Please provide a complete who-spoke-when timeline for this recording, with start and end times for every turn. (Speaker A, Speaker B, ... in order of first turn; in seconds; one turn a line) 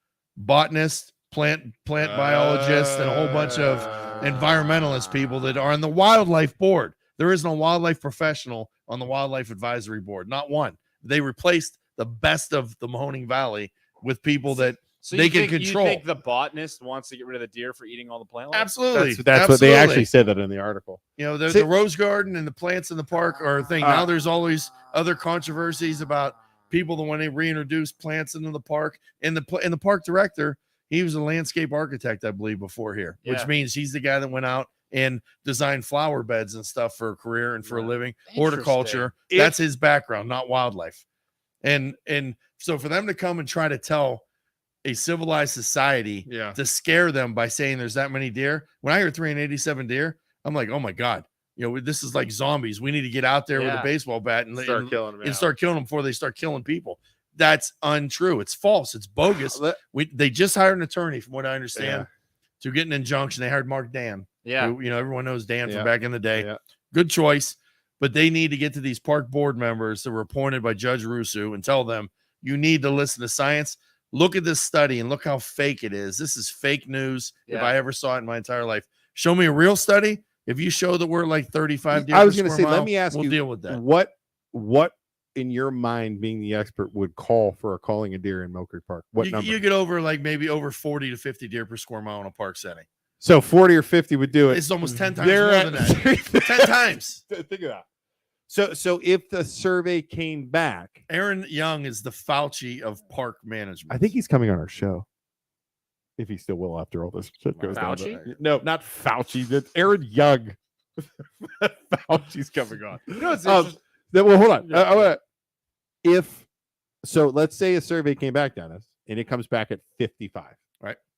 Speaker A: 0.4-16.0
Speaker B: 2.0-4.2
Speaker C: 14.8-18.7
Speaker A: 18.5-20.1
Speaker B: 18.9-21.7
Speaker A: 21.2-41.0
Speaker B: 23.8-24.1
Speaker C: 33.2-33.5
Speaker C: 37.7-39.2
Speaker A: 41.6-44.2
Speaker A: 44.9-62.1
Speaker B: 46.3-46.6
Speaker C: 53.5-53.9
Speaker B: 54.6-55.5
Speaker B: 59.3-59.8
Speaker B: 61.8-62.1
Speaker A: 62.6-83.8
Speaker C: 64.4-64.7
Speaker B: 65.7-66.6
Speaker C: 77.5-77.7
Speaker B: 81.9-89.6
Speaker A: 89.2-92.9
Speaker B: 93.2-97.8
Speaker A: 94.5-97.2
Speaker B: 98.5-101.0
Speaker A: 101.1-104.1
Speaker B: 103.9-105.1
Speaker B: 106.2-115.2
Speaker A: 107.5-108.3
Speaker C: 107.7-108.2
Speaker C: 113.1-113.8
Speaker C: 114.6-115.0
Speaker B: 116.0-116.5
Speaker B: 117.0-120.6